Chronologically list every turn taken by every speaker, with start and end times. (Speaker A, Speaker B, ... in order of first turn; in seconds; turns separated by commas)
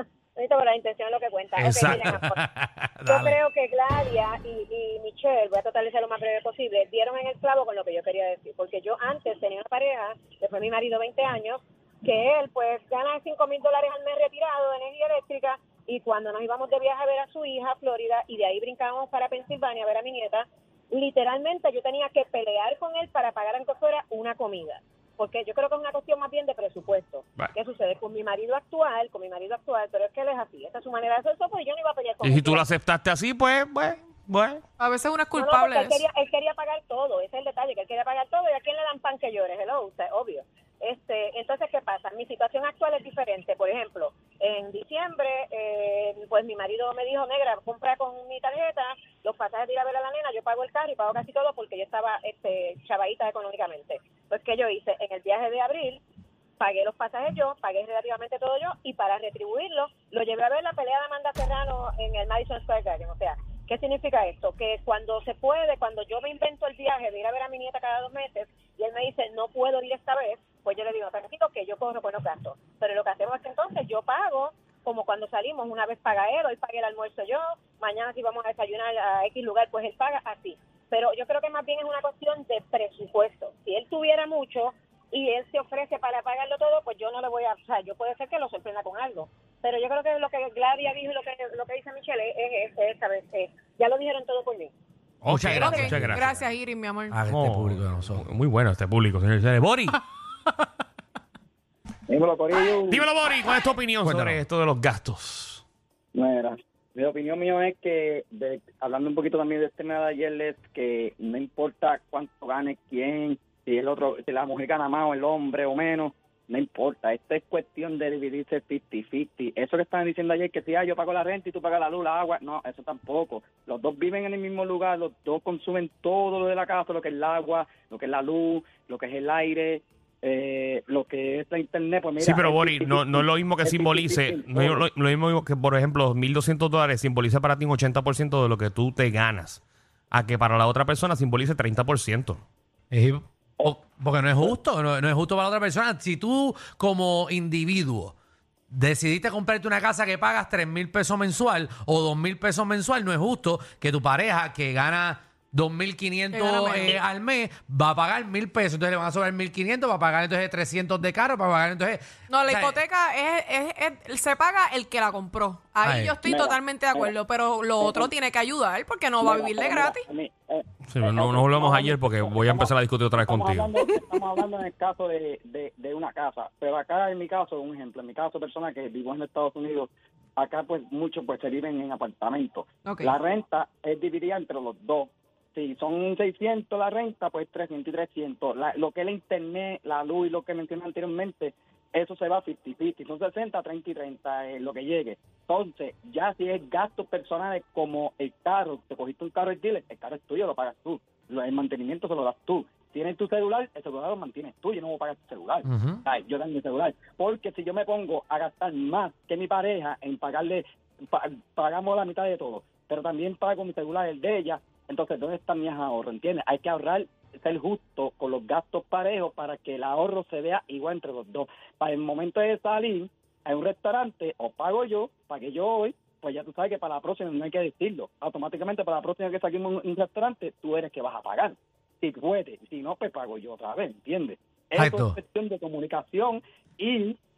Speaker A: 0.3-2.4, Speaker B: 1.6-2.3, Speaker C: 1.8-3.4, Speaker A: 3.1-32.6, Speaker B: 32.2-34.6, Speaker D: 34.8-36.0, Speaker A: 35.3-56.0, Speaker A: 56.6-94.7, Speaker B: 95.2-96.4, Speaker C: 95.2-96.3, Speaker D: 95.5-97.2, Speaker C: 97.1-98.2, Speaker B: 97.3-100.0, Speaker E: 102.1-103.0, Speaker B: 102.9-105.6, Speaker C: 104.0-104.4, Speaker E: 106.1-134.8, Speaker B: 132.2-142.4, Speaker C: 142.9-148.1, Speaker C: 148.7-162.8, Speaker D: 156.3-157.0, Speaker D: 162.3-170.0, Speaker C: 165.8-166.2, Speaker E: 166.2-167.1, Speaker E: 167.8-168.1, Speaker E: 169.2-237.2, Speaker B: 170.9-173.7, Speaker D: 182.8-183.1, Speaker C: 205.7-206.0, Speaker C: 234.8-235.2